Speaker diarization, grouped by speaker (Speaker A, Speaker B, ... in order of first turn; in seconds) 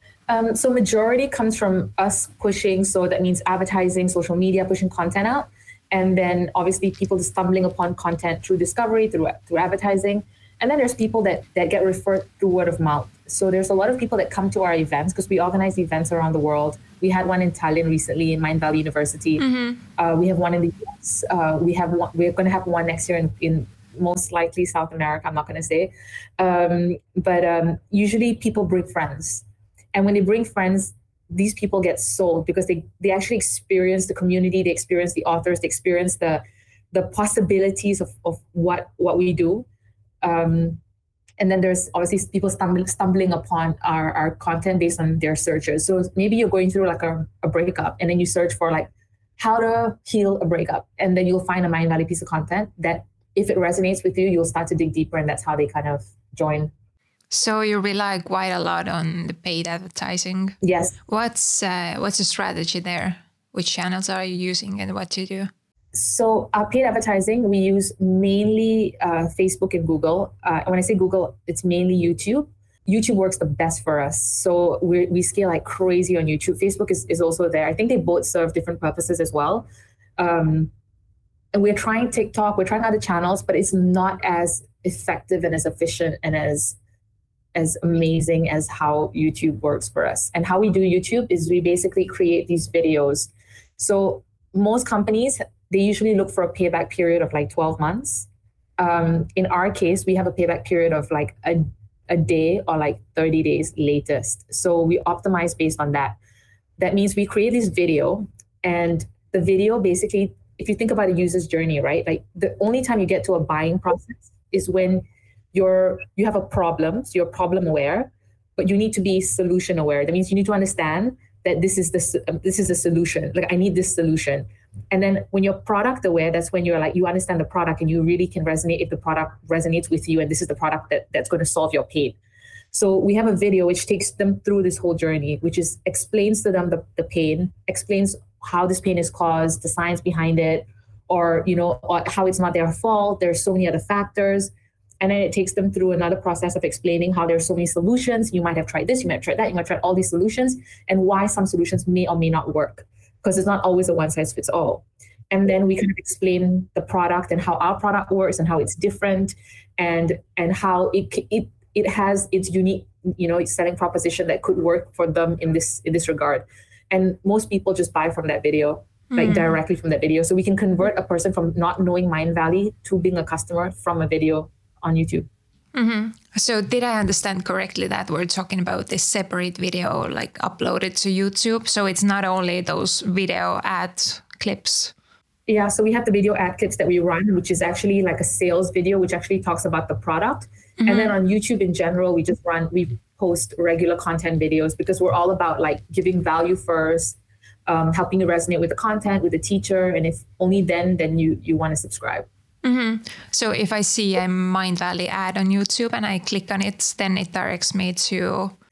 Speaker A: 0.3-19.4, 19.9-39.6, 40.2-40.8, 41.4-56.7, 60.6-60.9, 65.9-79.7, 80.2-80.7, 81.5-86.8, 87.5-98.3, 98.8-106.2, 106.8-132.2, 132.7-175.3, 185.5-197.2, 197.7-202.2
Speaker B: 19.4-19.8, 57.3-65.5, 169.1-169.5, 175.7-184.9, 190.8-191.2, 202.6-208.5